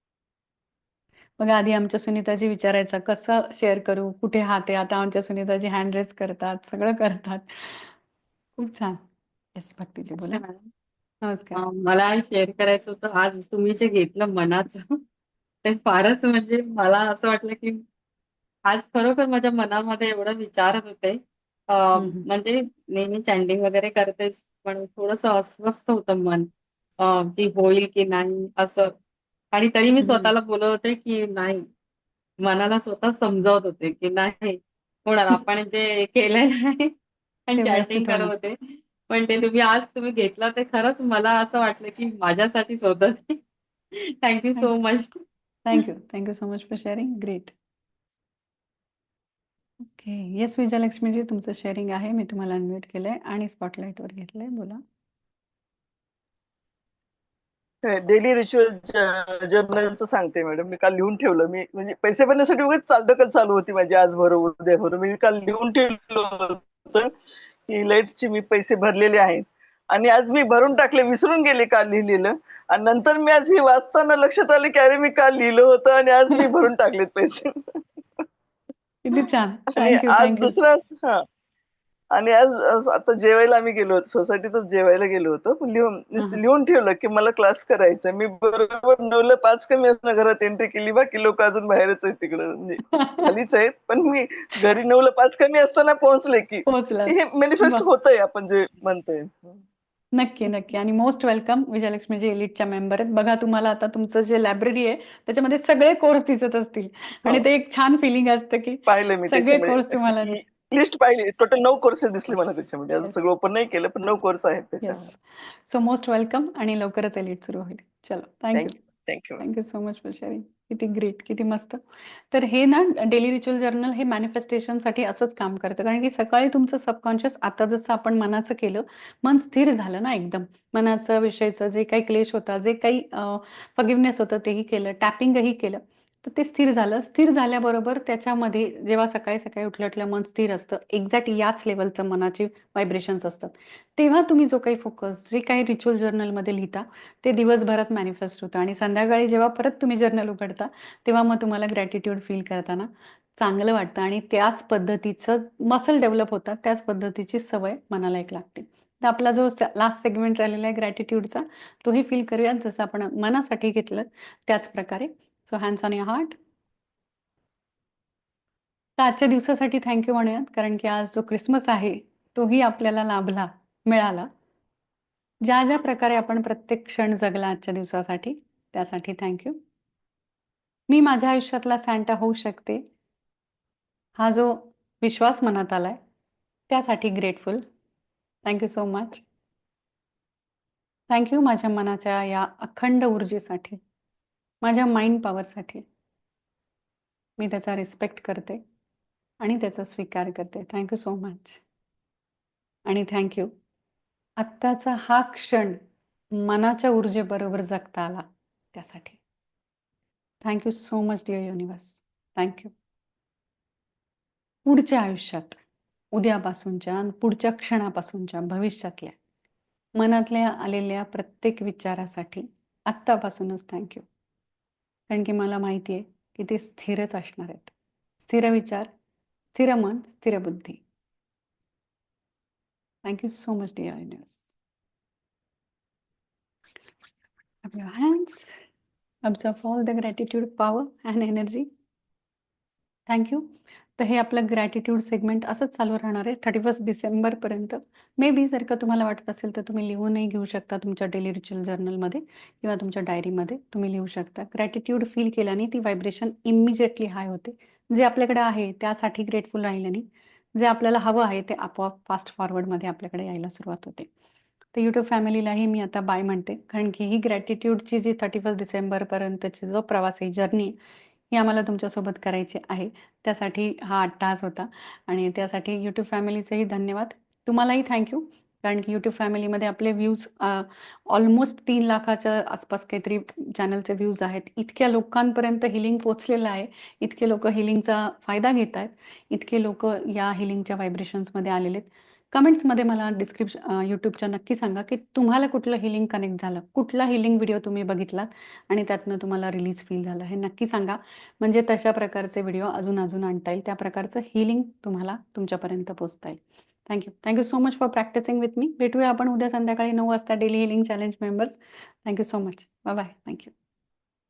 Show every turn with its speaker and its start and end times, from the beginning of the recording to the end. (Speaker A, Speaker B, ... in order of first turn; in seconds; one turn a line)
Speaker A: 1.4-7.9
Speaker A: 8.6-9.0
Speaker A: 9.6-10.4
Speaker B: 10.3-10.6
Speaker A: 11.2-11.6
Speaker B: 11.6-15.0
Speaker B: 15.6-17.8
Speaker B: 18.7-26.5
Speaker A: 21.9-22.3
Speaker B: 27.0-28.9
Speaker B: 29.5-31.6
Speaker A: 30.0-30.3
Speaker B: 32.4-36.9
Speaker B: 37.5-38.5
Speaker A: 37.6-38.3
Speaker B: 39.1-43.4
Speaker B: 44.2-45.1
Speaker A: 45.6-47.5
Speaker A: 49.8-54.8
Speaker C: 57.8-67.1
Speaker C: 67.7-77.5
Speaker A: 79.0-80.5
Speaker C: 79.8-81.2
Speaker C: 82.1-99.6
Speaker A: 93.0-93.2
Speaker A: 96.7-97.9
Speaker A: 100.1-110.4
Speaker C: 108.9-115.1
Speaker A: 112.3-113.2
Speaker A: 114.8-118.8
Speaker C: 118.5-119.5
Speaker A: 119.4-166.4
Speaker A: 169.0-174.3
Speaker A: 175.4-179.6
Speaker A: 180.9-182.8
Speaker A: 184.2-186.0
Speaker A: 186.7-187.6
Speaker A: 188.4-189.2
Speaker A: 191.1-193.8
Speaker A: 194.6-195.8
Speaker A: 197.4-198.6
Speaker A: 199.4-201.6
Speaker A: 202.8-203.5
Speaker A: 204.4-205.8
Speaker A: 206.4-209.2
Speaker A: 210.4-212.7
Speaker A: 214.7-215.6
Speaker A: 216.1-219.1
Speaker A: 219.9-224.1
Speaker A: 225.1-228.9
Speaker A: 229.5-230.8
Speaker A: 233.0-234.5
Speaker A: 237.6-238.6
Speaker A: 239.2-241.7
Speaker A: 243.1-260.1
Speaker A: 260.6-264.1
Speaker A: 264.7-270.8
Speaker A: 271.3-313.5